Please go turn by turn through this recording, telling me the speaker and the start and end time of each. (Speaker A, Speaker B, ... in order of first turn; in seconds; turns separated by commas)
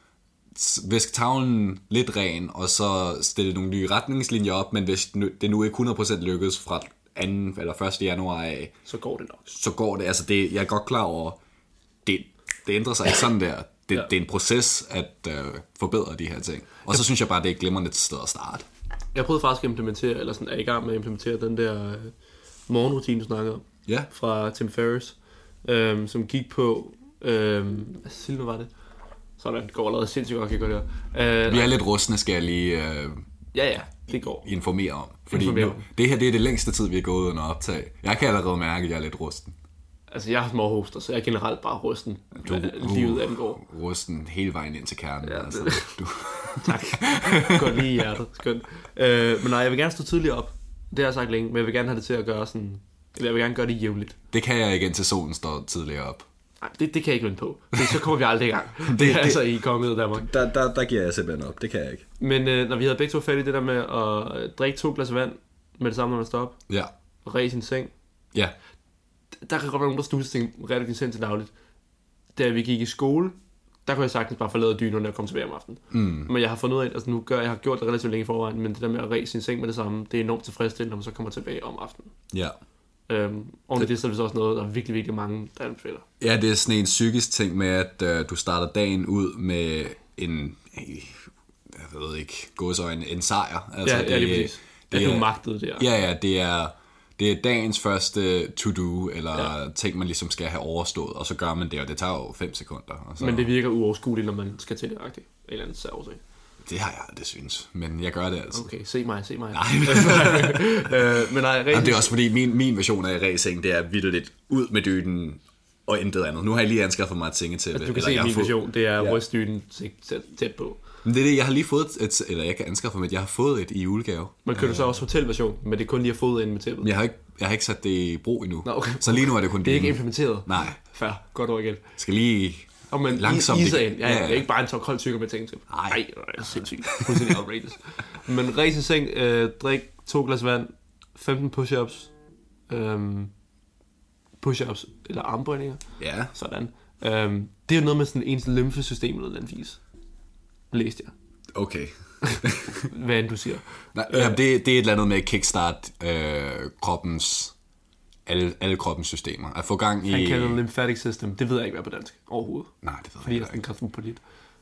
Speaker A: 0.6-8.7, Speaker B: 8.9-9.5, Speaker A: 9.5-11.4, Speaker A: 12.1-18.6, Speaker B: 19.1-22.1, Speaker B: 22.7-28.7, Speaker B: 29.4-31.8, Speaker A: 31.5-33.2, Speaker B: 33.5-34.5, Speaker A: 34.4-39.6, Speaker B: 35.3-35.8, Speaker B: 40.1-43.6, Speaker A: 42.4-47.9, Speaker B: 45.2-54.2, Speaker A: 54.3-56.2, Speaker B: 56.6-60.3, Speaker A: 58.8-59.5, Speaker A: 60.2-62.0, Speaker B: 62.2-66.6, Speaker B: 67.2-67.9, Speaker B: 69.4-71.5, Speaker B: 72.4-82.1, Speaker A: 75.9-76.3, Speaker B: 83.1-86.1, Speaker A: 86.2-103.5, Speaker B: 93.8-95.9, Speaker B: 103.2-106.2, Speaker A: 106.7-108.7, Speaker B: 108.5-112.1, Speaker A: 109.5-119.2, Speaker B: 117.7-120.8, Speaker A: 121.0-124.9, Speaker B: 124.5-126.9, Speaker A: 126.8-130.8, Speaker B: 128.7-131.8, Speaker A: 132.0-134.5, Speaker B: 132.9-142.1, Speaker A: 135.7-137.4, Speaker B: 142.7-143.3, Speaker B: 144.4-149.8, Speaker A: 146.0-146.3, Speaker B: 150.7-151.1, Speaker A: 151.5-152.9, Speaker B: 152.2-154.4, Speaker A: 153.9-157.5, Speaker A: 158.3-160.6, Speaker B: 160.1-162.7, Speaker A: 162.8-163.6, Speaker B: 163.2-164.2